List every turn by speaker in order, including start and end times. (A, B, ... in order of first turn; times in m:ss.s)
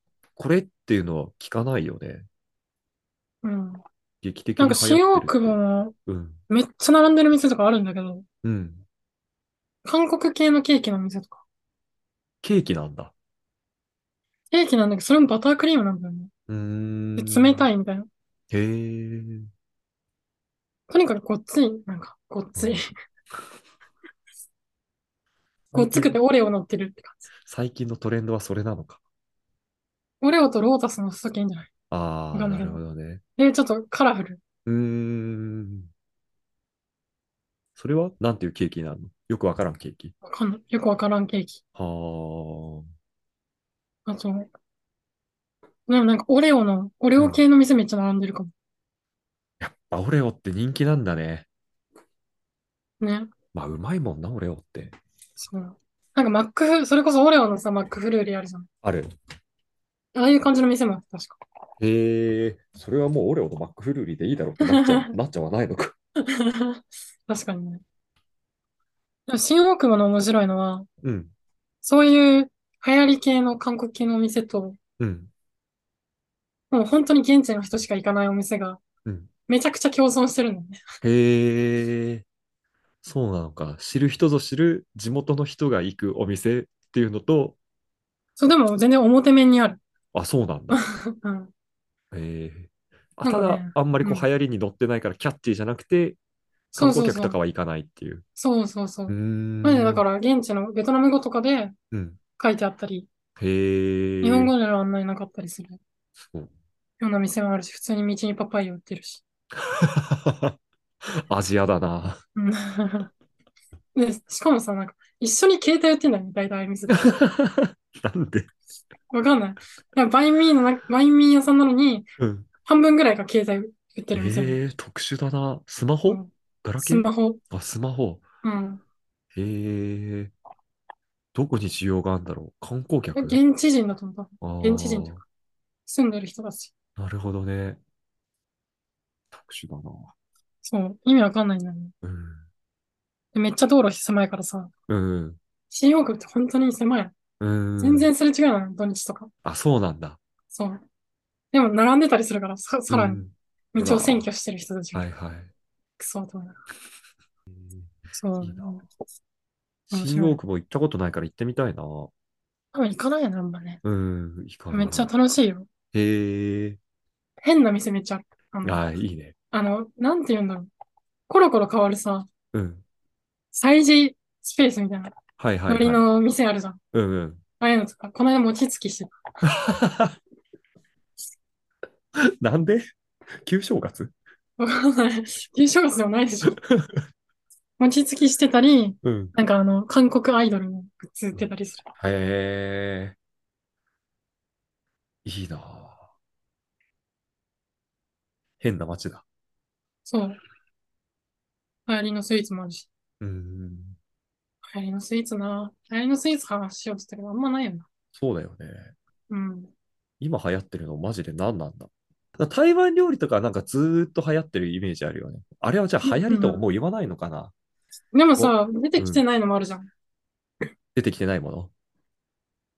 0:00.4-0:02.3 A
0:03.4-0:03.8 B
0:04.2-0:05.6 A
0:04.6-0:05.9 B
0:06.1-0:06.4 A
0:06.5-0:08.2 B
0:08.4-0:08.8 A
0:09.8-0:11.4 B
0:12.4-0:13.1 A
0:14.5-0:16.3 B
0:16.5-0:17.7 A
0:17.2-0:18.1 B
0:18.5-0:19.5 A
0:20.9-0:22.9 B
0:22.6-0:22.8 A
0:25.7-0:26.2 A
0:25.7-0:27.3 B
0:27.4-0:29.0 A
0:30.2-0:31.7 B
0:31.9-0:33.2 A
0:32.3-0:32.8 B
0:33.4-0:34.4 B
0:34.6-0:35.9 A
0:37.8-0:40.1 A
0:40.2-0:41.6 B
0:41.7-0:42.8 A
0:44.0-0:44.5 B
0:45.9-0:48.5 B
0:47.2-0:47.4 A
0:49.6-0:51.5 A
0:53.0-0:53.3 B
0:53.5-0:54.9 A
0:55.4-0:58.7 B
0:58.8-0:59.1 A
1:00.1-1:01.4 B
1:01.8-1:05.9 A
1:04.6-1:05.1 B
1:06.2-1:07.8 B
1:09.3-1:10.9 B
1:11.0-1:11.3 A
1:11.8-1:14.8 B
1:15.0-1:15.3 A
1:16.7-1:18.8 B
1:19.0-1:19.3 A
1:19.5-1:20.8 B
1:21.0-1:22.2 A
1:23.0-1:27.6 A
1:28.4-1:29.8 B
1:30.1-1:30.8 A
1:30.7-1:31.5 B
1:32.1-1:36.2 A
1:33.2-1:34.2 B
1:36.7-1:38.2 A
1:36.7-1:37.4 B
1:38.4-1:41.7 B
1:39.1-1:40.0 A
1:41.9-1:42.2 A
1:42.4-1:43.1 B
1:43.4-1:44.5 A
1:44.2-1:45.8 B
1:46.2-1:46.5 A
1:47.0-1:49.2 B
1:49.6-1:50.5 A
1:51.0-1:52.2 A
1:52.4-1:53.1 B
1:53.9-1:57.2 B
1:56.9-1:58.5 A
1:59.1-2:02.1 B
2:02.2-2:02.5 A
2:02.6-2:04.6 B
2:04.1-2:08.2 A
2:06.1-2:07.4 B
2:08.4-2:08.8 B
2:09.3-2:10.3 A
2:11.3-2:13.4 A
2:13.1-2:15.2 B
2:14.4-2:15.2 A
2:15.9-2:16.7 B
2:17.0-2:17.8 A
2:19.3-2:20.1 A
2:20.6-2:21.9 B
2:22.0-2:22.4 A
2:23.3-2:24.7 B
2:24.9-2:25.4 A
2:25.7-2:27.1 B
2:27.4-2:28.1 A
2:27.8-2:29.3 B
2:29.4-2:30.2 A
2:30.5-2:30.8 B
2:31.5-2:33.2 B
2:32.9-2:34.3 A
2:33.7-2:35.0 B
2:34.9-2:35.5 A
2:36.0-2:36.6 B
2:37.5-2:38.8 A
2:38.1-2:38.8 B
2:39.9-2:42.1 A
2:39.9-2:40.4 B
2:42.7-2:43.8 B
2:43.8-2:45.1 A
2:44.7-2:45.7 B
2:45.9-2:46.8 A
2:47.4-2:48.8 B
2:48.6-2:49.3 A
2:49.5-2:50.7 B
2:51.3-2:52.3 B
2:52.5-2:52.8 A
2:53.5-2:56.8 B
2:55.4-2:56.0 A
2:56.9-2:57.4 A
2:57.6-2:59.2 B
2:59.4-3:00.2 A
3:02.2-3:02.9 A
3:03.4-3:04.1 A
3:04.6-3:06.6 B
3:06.6-3:07.0 A
3:07.8-3:11.9 B
3:09.0-3:09.3 A
3:11.3-3:13.2 A
3:15.2-3:16.0 A
3:18.6-3:19.2 A
3:20.0-3:20.4 B
3:21.9-3:22.9 B
3:23.2-3:24.0 A
3:24.7-3:27.8 B
3:28.1-3:28.9 A
3:29.3-3:29.7 B
3:30.2-3:37.5 A
3:36.0-3:36.6 B
3:38.1-3:39.9 B
3:38.4-3:39.2 A
3:40.9-3:41.7 A